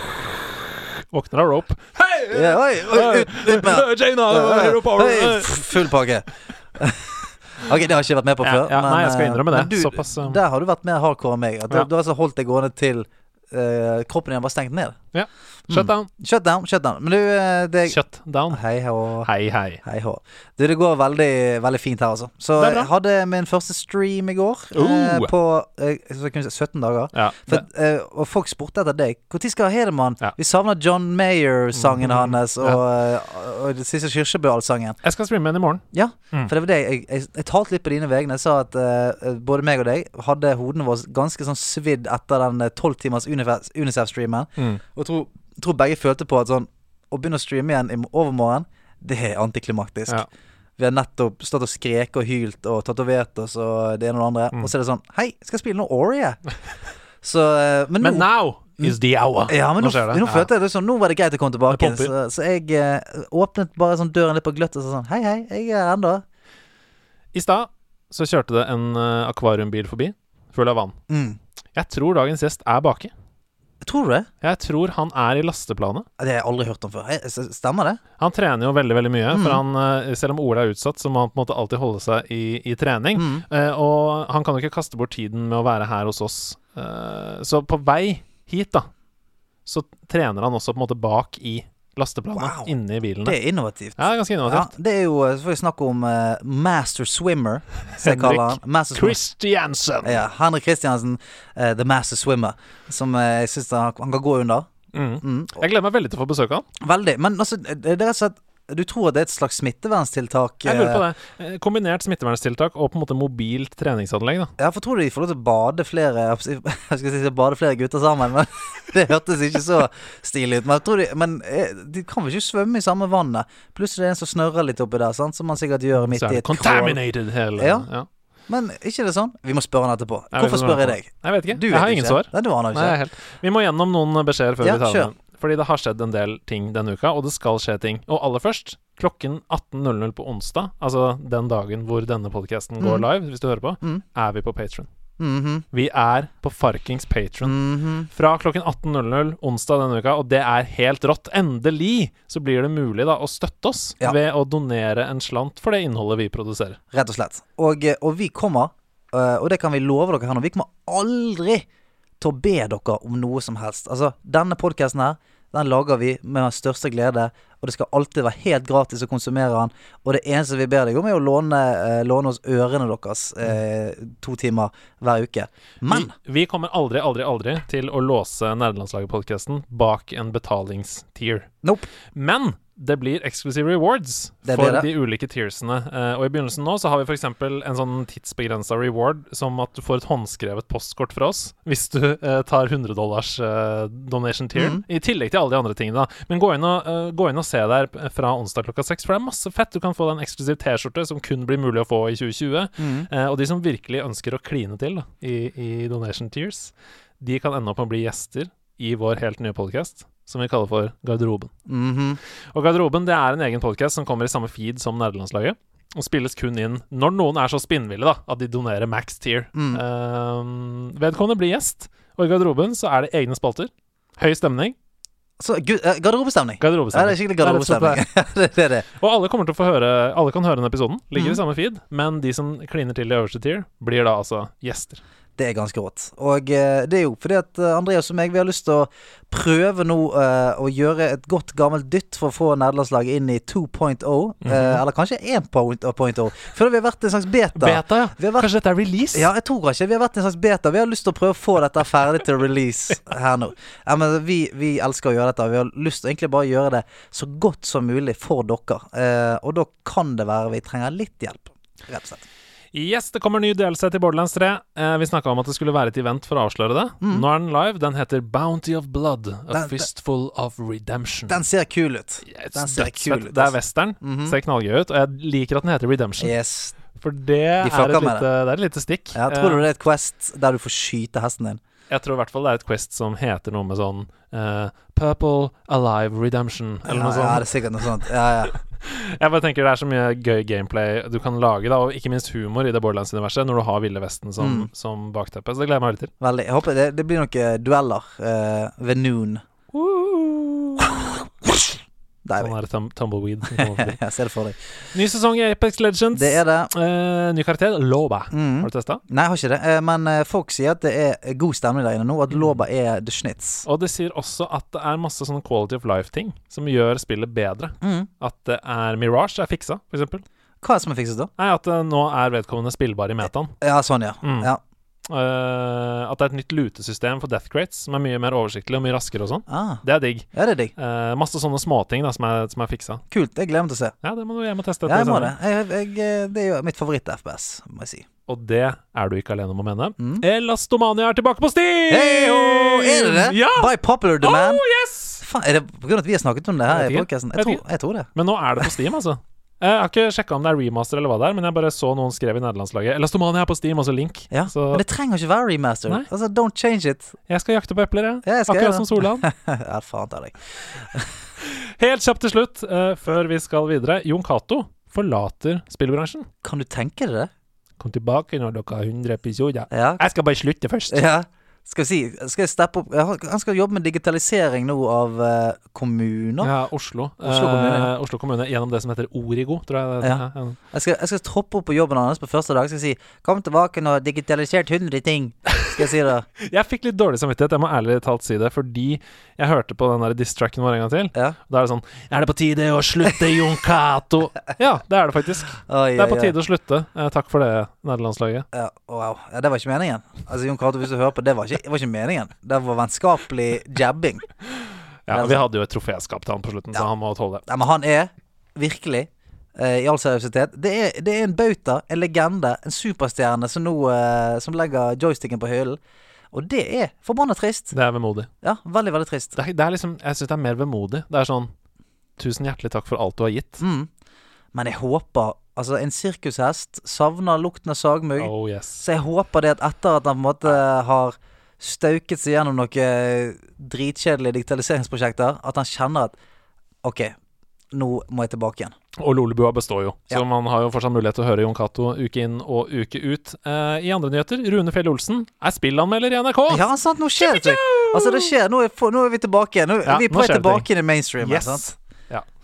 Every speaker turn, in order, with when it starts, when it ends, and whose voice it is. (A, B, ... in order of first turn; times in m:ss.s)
0:01.1-0:05.9 A
0:02.3-0:15.0 B
0:08.4-0:10.4 A
0:15.1-0:16.1 A
0:15.7-0:18.0 B
0:17.9-0:18.6 A
0:18.5-0:19.3 B
0:19.2-0:19.8 A
0:19.8-0:35.0 B
0:22.6-0:22.9 A
0:24.7-0:25.3 A
0:27.1-0:27.6 A
0:31.7-0:32.8 A
0:35.0-0:36.5 A
0:35.9-0:50.2 B
0:44.6-0:44.8 A
0:50.8-0:56.4 B
0:57.2-0:59.0 B
0:58.0-1:00.5 A
0:59.5-1:06.2 B
1:01.7-1:02.1 A
1:07.3-1:11.0 A
1:11.1-1:11.4 B
1:11.8-1:13.1 A
1:13.8-1:14.3 B
1:14.4-1:16.1 A
1:16.2-1:18.0 B
1:18.2-1:28.9 A
1:19.3-1:19.6 B
1:23.2-1:23.4 B
1:29.7-1:33.4 A
1:32.4-1:39.2 B
1:34.0-1:34.7 A
1:38.0-1:40.3 A
1:40.0-1:44.7 B
1:44.9-1:46.7 A
1:45.2-1:45.6 B
1:46.8-1:51.0 B
1:50.6-1:54.5 A
1:54.6-2:07.0 B
2:05.9-2:08.1 A
2:07.6-2:07.9 B
2:08.5-2:13.0 B
2:10.3-2:24.9 A
2:14.6-2:15.1 B
2:22.8-2:23.1 B
2:25.2-2:25.6 B
2:25.7-2:36.8 A
2:27.4-2:28.1 B
2:36.9-2:41.6 B
2:42.2-2:56.1 B
2:55.9-3:01.5 A
3:01.6-3:01.9 B
3:02.0-3:31.5 A
3:04.4-3:04.9 B
3:14.6-3:14.8 B
3:22.8-3:23.1 B
3:31.7-3:32.2 B
3:32.5-3:44.8 A
3:39.5-3:39.8 B
3:45.4-3:48.9 B
3:46.6-3:48.0 A
3:48.9-3:55.0 A
3:51.2-3:51.4 B
3:55.4-4:08.5 B
4:04.4-4:04.8 A
4:07.5-4:09.3 A
4:09.1-4:22.2 B
4:22.7-4:31.4 A
4:27.0-4:27.3 B
4:29.5-4:29.9 B
4:31.3-4:34.4 B
4:32.3-4:36.3 A
4:36.2-4:36.8 B
4:37.0-4:39.6 A
4:37.6-4:38.2 B
4:39.1-4:41.6 B
4:41.9-4:48.0 A
4:46.9-4:48.6 B
4:48.7-4:56.1 A
4:54.4-4:54.7 B
4:56.2-4:59.4 B
4:59.7-5:01.8 A
5:02.2-5:02.5 B
5:02.4-5:04.0 A
5:03.5-5:04.6 B
5:04.9-5:09.0 A
5:06.1-5:06.7 B
5:08.3-5:13.7 B
5:12.3-5:12.6 A
5:13.7-5:20.2 A
5:17.8-5:18.1 B
5:20.6-5:21.3 B
5:21.4-5:23.6 A
5:23.6-5:24.6 B
5:24.2-5:24.5 A
5:25.1-5:33.0 A
5:29.5-5:30.7 B
5:33.1-5:33.9 B
5:34.0-5:35.4 A
5:34.9-5:38.0 B
5:38.3-5:45.2 A
5:40.0-5:40.3 B
5:41.9-5:44.6 B
5:45.2-5:48.1 B
5:46.7-5:47.6 A
5:48.1-5:54.8 A
5:54.3-5:57.2 B
5:57.3-5:59.3 A
5:58.2-6:00.4 B
6:01.4-6:06.3 A
6:06.4-6:07.3 B
6:07.8-6:11.1 A
6:09.7-6:10.0 B
6:10.9-6:16.5 B
6:16.4-6:20.6 A
6:17.2-6:17.9 B
6:20.0-6:26.3 B
6:26.4-6:38.5 A
6:35.7-6:36.4 B
6:38.5-6:44.3 B
6:45.1-6:47.4 A
6:45.1-6:45.4 B
6:47.5-6:55.8 B
6:56.3-6:57.7 B
6:57.7-6:58.3 A
6:58.4-6:59.4 B
6:59.4-7:01.5 A
7:02.2-7:03.6 A
7:03.6-7:03.9 B
7:04.5-7:16.2 B
7:08.2-7:08.8 A
7:16.8-7:17.1 B
7:17.7-7:18.8 B
7:19.0-7:26.6 A
7:26.5-7:31.7 B
7:27.2-7:28.3 A
7:29.9-7:30.7 A
7:31.2-7:32.3 A